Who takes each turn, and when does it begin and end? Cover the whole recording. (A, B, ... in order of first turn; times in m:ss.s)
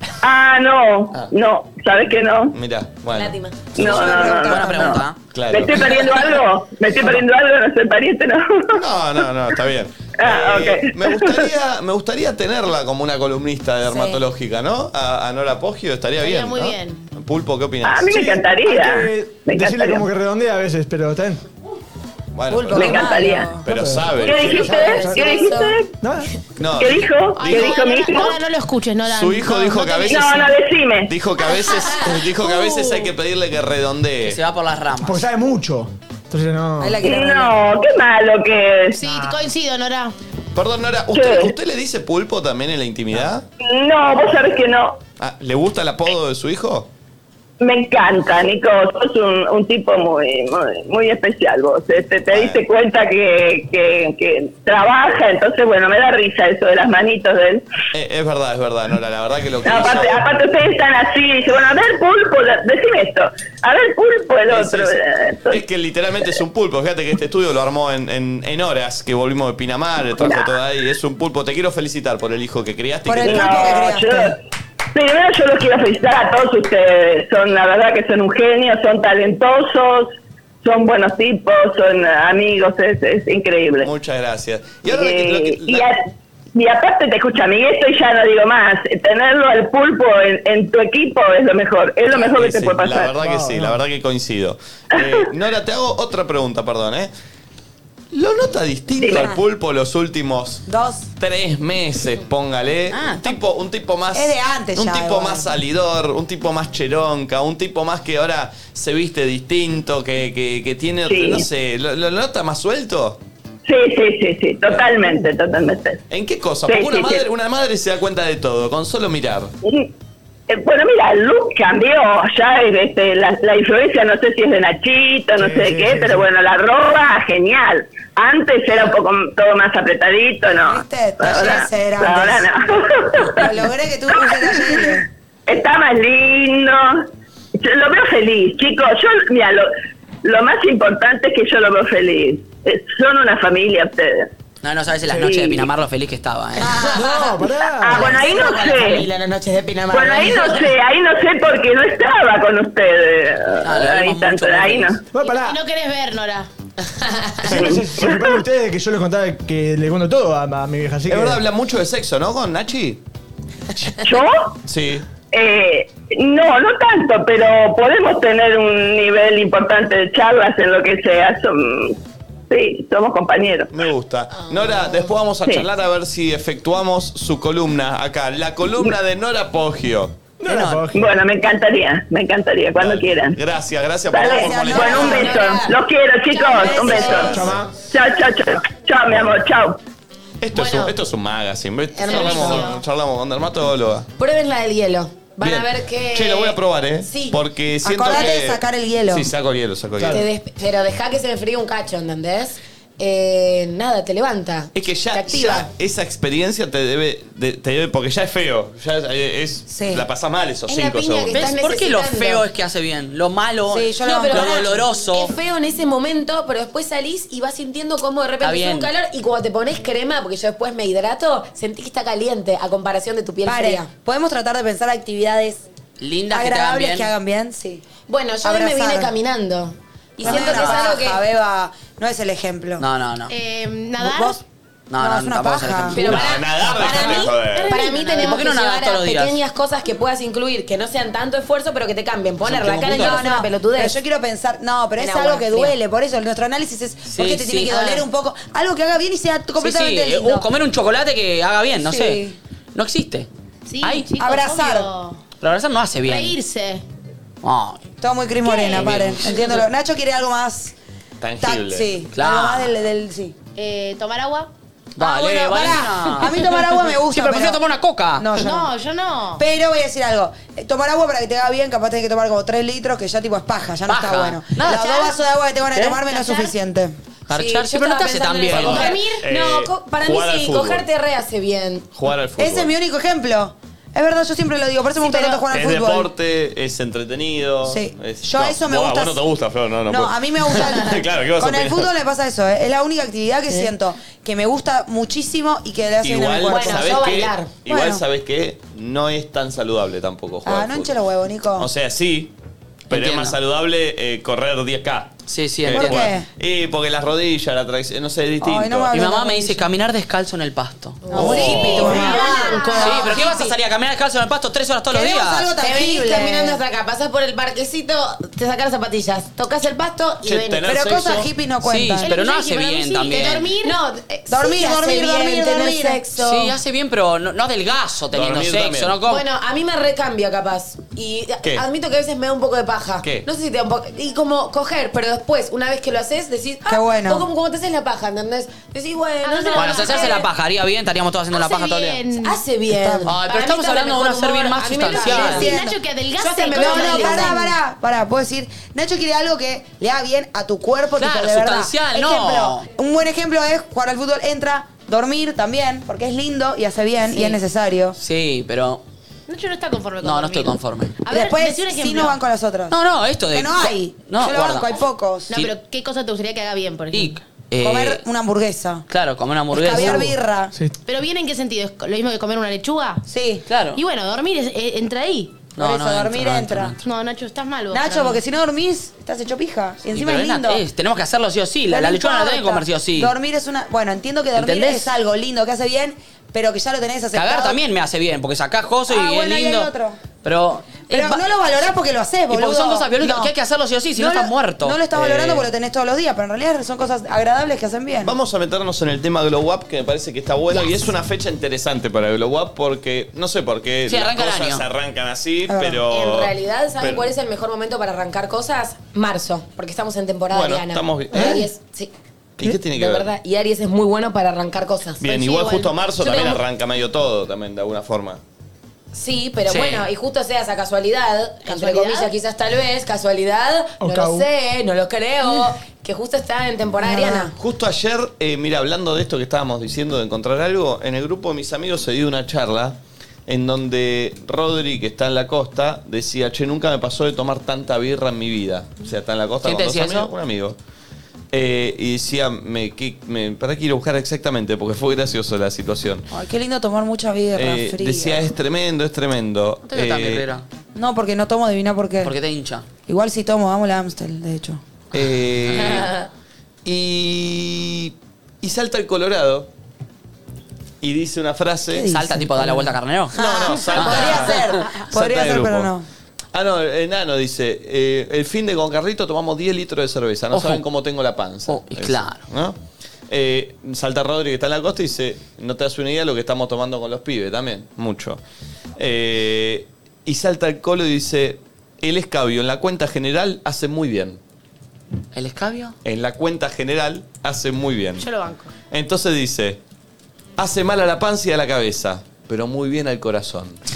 0:00.2-0:02.6 A
0:02.5-0:04.4 B
0:03.1-0:04.4 C
0:03.8-0:05.0 A
0:03.9-0:05.0 D
0:04.2-0:05.2 E
0:05.3-0:06.2 B
0:05.5-0:08.8 A
0:08.7-0:18.4 B
0:10.2-0:11.5 A
0:13.9-0:14.2 D
0:16.2-0:17.0 F
0:17.8-0:20.0 A
0:18.5-0:21.4 G
0:22.3-0:24.9 B
0:22.5-0:23.7 D
0:22.7-0:23.6 A
0:23.7-0:25.2 G
0:24.2-0:26.0 A
0:24.4-0:25.7 D
0:25.1-0:25.7 C
0:26.0-0:26.3 G
0:26.6-0:27.8 B
0:26.8-0:28.4 A
0:27.4-0:30.5 F
0:29.1-0:30.5 B
0:30.1-0:31.1 A
0:31.1-0:34.4 B
0:31.9-0:33.1 F
0:34.2-0:35.2 E
0:35.0-0:37.0 G
0:36.8-0:37.6 D
0:37.0-0:39.0 A
0:39.0-0:40.1 F
0:39.0-0:39.4 G
0:40.6-0:43.4 B
0:41.1-0:41.5 A
0:43.6-0:45.0 A
0:45.2-0:46.9 B
0:47.6-0:57.6 A
0:52.3-0:52.6 B
0:57.9-1:00.3 B
0:59.6-1:05.6 A
1:04.5-1:05.0 B
1:05.5-1:13.9 B
1:10.2-1:10.5 A
1:13.1-1:14.4 D
1:13.2-1:14.4 A
1:14.9-1:23.9 A
1:23.8-1:25.9 B
1:24.9-1:26.0 A
1:26.6-1:33.1 A
1:32.1-1:37.1 B
1:33.2-1:33.8 G
1:35.0-1:35.3 A
1:38.1-1:40.6 B
1:39.0-1:39.3 A
1:39.1-1:39.4 D
1:40.7-1:41.1 D
1:41.2-1:53.2 B
1:44.1-1:45.6 D
1:51.1-1:51.4 A
1:53.7-1:56.0 A
1:54.7-1:55.0 B
1:56.1-1:59.5 B
1:56.7-1:57.2 A
2:00.5-2:13.6 A
2:05.4-2:06.3 G
2:10.6-2:12.5 D
2:13.3-2:15.1 D
2:14.1-2:19.7 A
2:20.2-2:24.3 A
2:24.6-2:26.7 E
2:25.1-2:25.7 A
2:26.6-2:30.7 C
2:26.8-2:28.1 G
2:27.8-2:29.1 A
2:29.9-2:35.0 A
2:33.6-2:34.9 E
2:35.1-2:35.6 G
2:35.2-2:36.5 F
2:36.9-2:37.6 C
2:37.4-2:41.4 G
2:37.5-2:38.0 A
2:41.1-2:43.0 B
2:44.0-2:44.5 A
2:44.7-2:45.0 B
2:45.3-2:52.0 A
2:52.5-2:53.7 A
2:53.7-3:00.2 B
2:54.5-2:55.0 C
3:00.4-3:01.1 G
3:00.5-3:00.9 E
3:00.9-3:03.4 A
3:02.8-3:05.4 B
3:04.1-3:09.8 A
3:04.2-3:05.7 D
3:04.7-3:05.7 C
3:06.3-3:07.5 D
3:06.5-3:07.3 C
3:07.3-3:07.8 G
3:09.1-3:09.4 B
3:10.4-3:14.1 B
3:10.6-3:10.9 C
3:12.0-3:12.8 C
3:12.1-3:12.7 F
3:14.2-3:17.4 C
3:15.4-3:20.3 B
3:17.8-3:19.3 D
3:18.1-3:18.3 C
3:20.0-3:20.2 G
3:20.1-3:25.7 C
3:24.7-3:31.5 B
3:29.7-3:30.0 D
3:30.7-3:32.4 C
3:31.3-3:35.3 E
3:33.7-3:34.8 D
3:34.0-3:43.9 C
3:38.4-3:38.9 E
3:43.4-3:45.6 D
3:46.0-3:47.1 E
3:46.3-3:47.8 D
3:48.1-3:51.2 C
3:48.4-3:49.1 D
3:50.2-3:50.8 E
3:50.2-3:52.8 D
3:52.8-3:53.3 E
3:53.3-3:54.4 F
3:54.0-3:54.4 D
3:54.9-3:56.3 E
3:55.0-3:56.0 D
3:55.9-4:04.0 C
3:56.0-3:57.8 B
3:56.8-3:58.5 F
3:58.1-3:59.4 E
4:02.4-4:03.2 E
4:02.9-4:10.5 D
4:05.0-4:05.8 C
4:07.1-4:08.0 E
4:09.6-4:12.2 E
4:11.8-4:12.4 D
4:12.8-4:13.3 E
4:13.7-4:15.2 F
4:13.8-4:14.1 E
4:14.2-4:14.9 D
4:15.4-4:16.4 E
4:16.0-4:16.8 F
4:17.4-4:17.8 E
4:18.0-4:20.8 D
4:18.6-4:19.6 E
4:21.2-4:21.9 B
4:21.4-4:23.4 D
4:22.1-4:22.7 E
4:23.6-4:24.5 F
4:25.0-4:28.3 E
4:25.0-4:27.6 D
4:28.2-4:28.7 D
4:28.4-4:29.4 F
4:29.4-4:37.0 D
4:33.9-4:35.1 E
4:34.7-4:35.2 F
4:35.7-4:36.0 E
4:36.0-4:36.5 F
4:37.3-4:38.9 E
4:37.3-4:41.9 C
4:38.5-4:40.9 B
4:38.7-4:39.2 F
4:41.9-4:42.7 B
4:42.4-4:46.1 D
4:45.3-4:51.9 B
4:47.6-4:49.2 D
4:49.9-4:57.0 D
4:56.0-5:01.0 B
4:56.5-4:57.5 C
4:57.7-4:58.0 D
5:00.4-5:01.7 D
5:01.6-5:02.3 B
5:02.9-5:03.4 E
5:02.9-5:05.1 B
5:05.3-5:06.1 E
5:05.6-5:09.0 B
5:05.7-5:06.3 D
5:08.4-5:09.7 D
5:08.9-5:15.5 E
5:11.0-5:13.6 C
5:11.1-5:13.4 D
5:11.1-5:12.0 B
5:11.8-5:13.4 F
5:14.9-5:16.6 D
5:15.6-5:20.8 C
5:20.2-5:21.3 B
5:20.6-5:22.1 D
5:21.6-5:23.5 E
5:22.0-5:23.8 F
5:23.6-5:26.6 C
5:24.3-5:26.1 D
5:26.2-5:29.2 E
5:28.1-5:29.0 B
5:29.1-5:40.2 C
5:36.7-5:37.3 D
5:39.2-5:40.3 F
5:39.5-5:42.0 E
5:41.3-5:42.4 F
5:42.2-5:45.6 C
5:42.7-5:43.1 D
5:43.1-5:45.5 E
5:44.8-5:45.8 D
5:45.0-5:47.5 F
5:46.2-5:47.5 C
5:46.5-5:58.0 D
5:51.0-5:52.7 E
5:58.0-5:58.8 E
5:59.3-6:02.2 F
6:00.0-6:01.0 E
6:01.1-6:02.8 D
6:02.7-6:04.7 E
6:03.3-6:05.4 D
6:05.3-6:07.2 F
6:06.9-6:08.0 E
6:07.6-6:08.9 D
6:08.9-6:10.2 E
6:09.5-6:10.6 D
6:09.7-6:10.0 G
6:10.9-6:13.0 F
6:13.1-6:13.4 D
6:13.5-6:13.8 E
6:13.7-6:15.5 F
6:15.6-6:16.8 E
6:15.6-6:16.8 D
6:16.8-6:18.2 F
6:17.7-6:20.6 D
6:19.9-6:23.1 E
6:21.7-6:27.6 D
6:24.4-6:24.9 E
6:27.1-6:29.7 E
6:28.9-6:30.0 D
6:30.2-6:31.2 E
6:30.9-6:33.3 D
6:32.3-6:35.4 E
6:34.0-6:38.2 D
6:38.0-6:47.1 B
6:43.9-6:44.6 E
6:45.5-6:45.8 D
6:45.9-6:51.9 C
6:50.3-6:51.4 B
6:52.4-6:53.1 B
6:52.4-6:56.4 C
6:55.0-6:58.2 B
6:58.9-7:07.3 C
6:59.5-6:59.9 E
7:01.5-7:02.1 F
7:03.8-7:04.3 G
7:06.8-7:07.3 D
7:07.4-7:20.6 B
7:19.4-7:20.1 E
7:21.3-7:26.1 B
7:26.1-7:28.3 D
7:27.4-7:30.3 B
7:29.7-7:30.4 E
7:30.8-7:32.1 D
7:32.0-7:32.7 E
7:32.9-7:34.6 D
7:34.9-7:36.0 B
7:35.4-7:35.8 E
7:36.6-7:39.5 B
7:40.8-7:41.9 B
7:41.7-7:45.9 D
7:41.9-7:43.2 E
7:43.2-7:45.7 B
7:43.7-7:44.3 E
7:46.3-7:52.6 B
7:50.3-7:50.6 E
7:51.5-7:52.2 E
7:53.1-7:58.2 B
7:58.8-8:04.2 B
8:05.1-8:05.8 E
8:05.8-8:08.1 B
8:08.0-8:08.5 F
8:08.7-8:09.6 B
8:10.4-8:13.6 B